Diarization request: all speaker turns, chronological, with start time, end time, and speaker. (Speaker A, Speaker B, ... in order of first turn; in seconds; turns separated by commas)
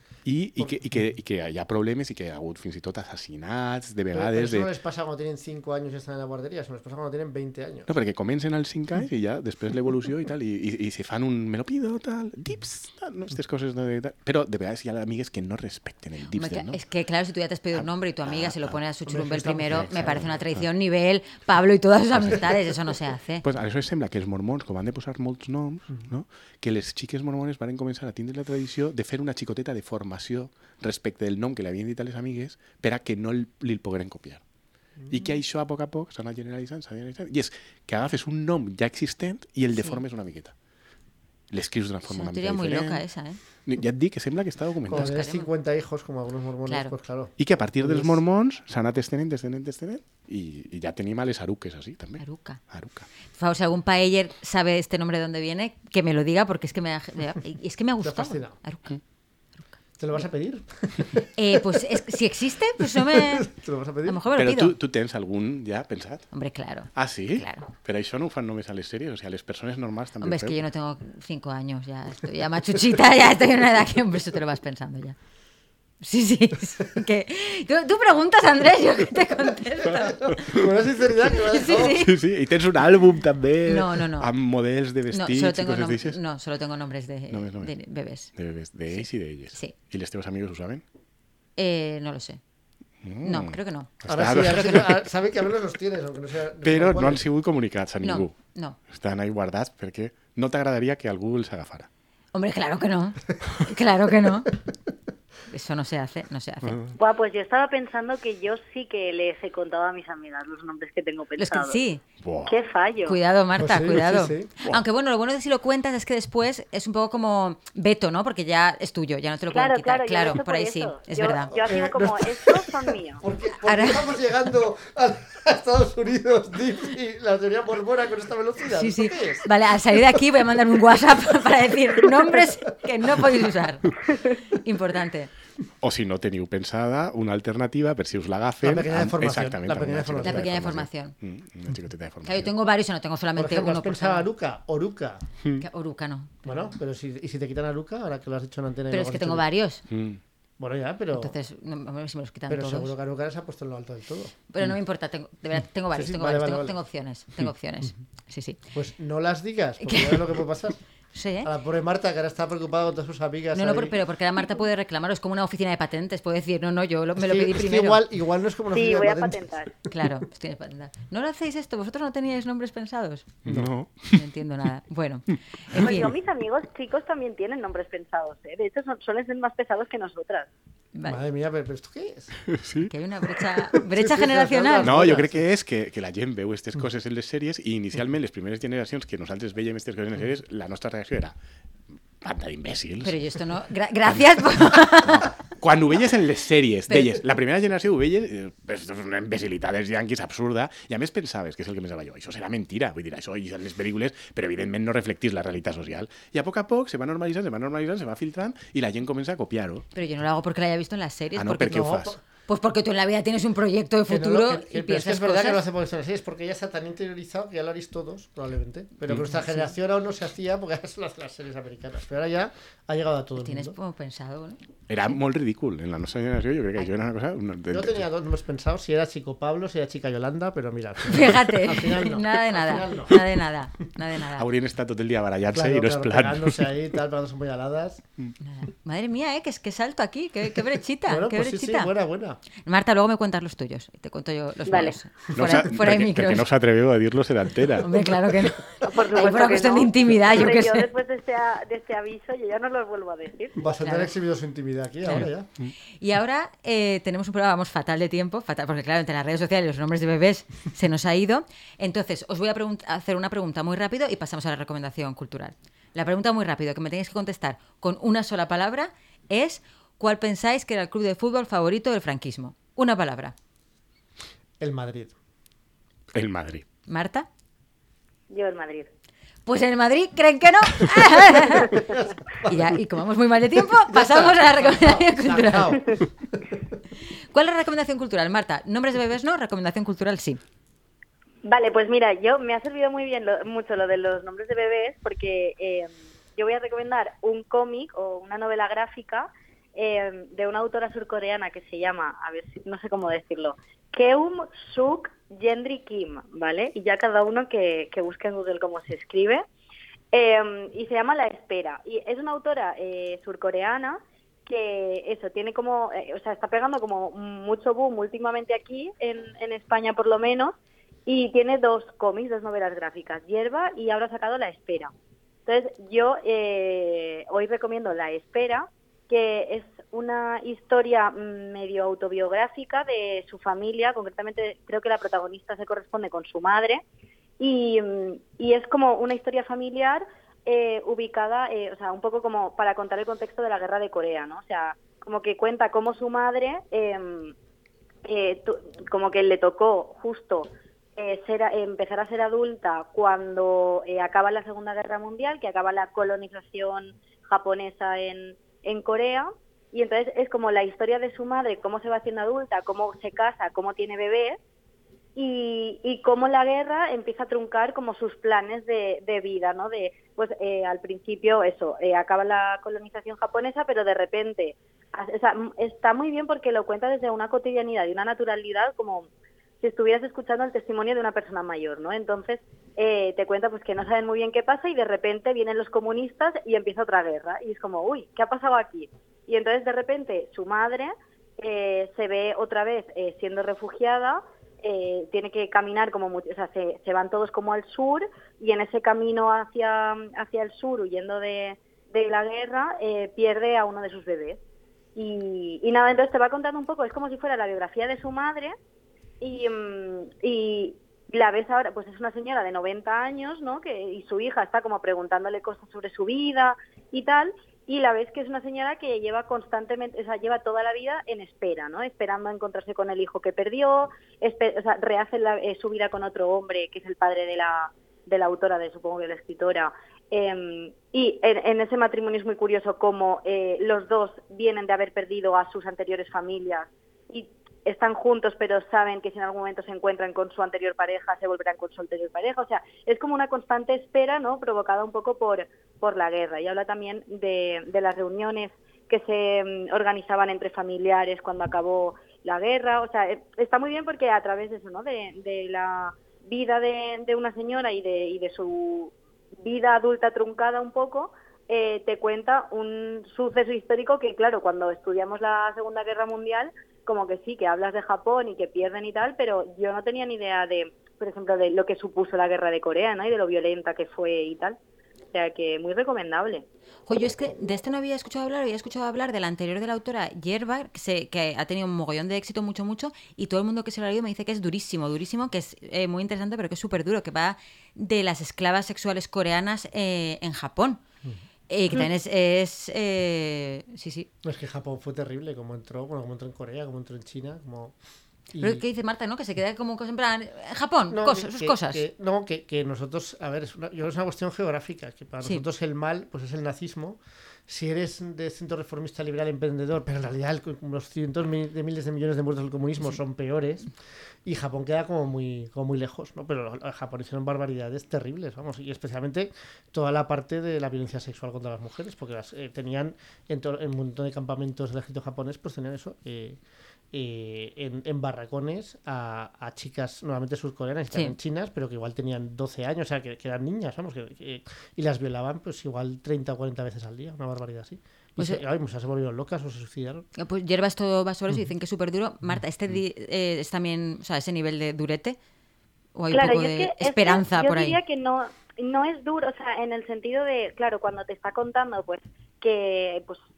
Speaker A: 0.2-4.7, Speaker B: 4.1-7.9, Speaker A: 7.9-16.8, Speaker C: 16.3-23.4, Speaker A: 17.7-18.8, Speaker B: 19.1-20.3, Speaker A: 19.6-20.6, Speaker A: 22.1-22.5, Speaker A: 23.4-34.4, Speaker A: 35.1-40.5, Speaker C: 39.8-40.0, Speaker A: 41.5-43.0, Speaker C: 42.0-43.4, Speaker A: 43.6-45.1, Speaker B: 44.9-48.2, Speaker C: 44.9-45.5, Speaker C: 46.6-46.9, Speaker A: 47.4-53.1, Speaker C: 52.2-52.6, Speaker C: 53.3-58.9, Speaker B: 58.0-58.6, Speaker B: 60.0-61.9, Speaker C: 61.3-63.5, Speaker B: 62.8-64.2, Speaker C: 64.0-64.8, Speaker A: 64.3-66.3, Speaker C: 66.3-67.7, Speaker A: 66.9-70.6, Speaker C: 70.2-75.2, Speaker C: 76.0-80.5, Speaker B: 79.9-82.0, Speaker C: 81.5-82.1, Speaker A: 81.9-86.2, Speaker C: 83.7-84.3, Speaker C: 85.1-88.3, Speaker A: 87.3-87.7, Speaker A: 88.3-90.8, Speaker C: 88.9-89.7, Speaker C: 91.6-92.4, Speaker A: 93.0-95.0, Speaker C: 93.2-93.9, Speaker B: 94.1-97.2, Speaker A: 96.6-98.3, Speaker C: 98.0-98.8, Speaker A: 98.9-101.9, Speaker C: 102.3-104.5, Speaker C: 105.5-106.8, Speaker A: 106.6-107.0, Speaker D: 107.0-111.8, Speaker C: 111.4-112.0, Speaker A: 112.2-112.5, Speaker D: 112.5-113.2, Speaker C: 113.0-121.5, Speaker B: 113.6-114.5, Speaker D: 119.5-123.2, Speaker B: 121.5-129.5, Speaker C: 123.6-124.2, Speaker C: 128.7-135.3, Speaker A: 135.8-142.5, Speaker B: 138.6-140.5, Speaker C: 140.2-141.1, Speaker C: 142.2-144.3, Speaker B: 143.3-145.2, Speaker C: 145.6-146.7, Speaker B: 146.4-149.4, Speaker C: 148.9-149.8, Speaker A: 149.9-150.2, Speaker B: 150.6-151.3, Speaker C: 151.1-152.9, Speaker B: 152.5-154.3, Speaker C: 154.5-158.6, Speaker B: 155.9-156.8, Speaker B: 158.7-160.8, Speaker C: 159.8-160.2, Speaker C: 161.1-161.5, Speaker B: 161.4-164.0, Speaker C: 163.5-168.0, Speaker B: 167.2-169.4, Speaker D: 168.7-169.7, Speaker C: 169.9-173.4, Speaker B: 173.4-173.7, Speaker A: 173.4-174.2, Speaker C: 174.1-176.1, Speaker D: 175.7-180.5, Speaker C: 180.9-181.2, Speaker B: 181.0-182.3, Speaker A: 182.5-182.9, Speaker C: 182.9-185.0, Speaker B: 183.7-185.4, Speaker A: 184.8-191.3, Speaker A: 192.2-193.2, Speaker C: 193.0-195.3, Speaker A: 194.1-209.8, Speaker C: 196.9-197.2, Speaker C: 209.9-215.6, Speaker A: 211.3-212.1, Speaker B: 211.6-212.2, Speaker B: 214.1-223.8, Speaker C: 219.3-219.7, Speaker C: 223.4-224.6, Speaker A: 224.9-228.0, Speaker B: 227.7-233.3, Speaker C: 231.1-234.5, Speaker A: 234.3-236.7, Speaker B: 235.5-238.0, Speaker C: 238.4-241.9, Speaker B: 241.1-242.4, Speaker C: 242.7-246.4, Speaker D: 244.7-244.9, Speaker A: 245.3-248.1, Speaker C: 247.8-250.9, Speaker B: 248.2-248.9, Speaker D: 248.8-253.6, Speaker B: 253.6-255.5, Speaker C: 253.7-254.1, Speaker A: 255.1-255.7, Speaker C: 256.0-273.3, Speaker B: 274.6-275.1, Speaker A: 276.1-276.6, Speaker C: 276.9-277.3, Speaker D: 278.3-278.9, Speaker C: 279.4-281.8, Speaker B: 281.5-282.8, Speaker C: 282.4-285.8, Speaker B: 283.8-286.6, Speaker C: 287.3-290.4, Speaker D: 291.4-309.4, Speaker D: 310.1-324.9, Speaker D: 325.4-336.8, Speaker D: 337.4-347.3, Speaker D: 348.0-364.4, Speaker D: 365.1-379.1, Speaker D: 379.6-404.4, Speaker D: 404.9-408.5, Speaker D: 409.2-458.9, Speaker D: 459.4-474.6, Speaker D: 475.1-476.4, Speaker C: 476.9-490.8, Speaker C: 491.5-494.1, Speaker B: 494.2-497.7, Speaker B: 498.3-498.6, Speaker C: 498.4-501.9, Speaker B: 500.9-513.7, Speaker B: 514.2-526.4, Speaker B: 526.9-540.0, Speaker C: 540.2-545.2, Speaker C: 545.9-547.8, Speaker D: 546.1-553.2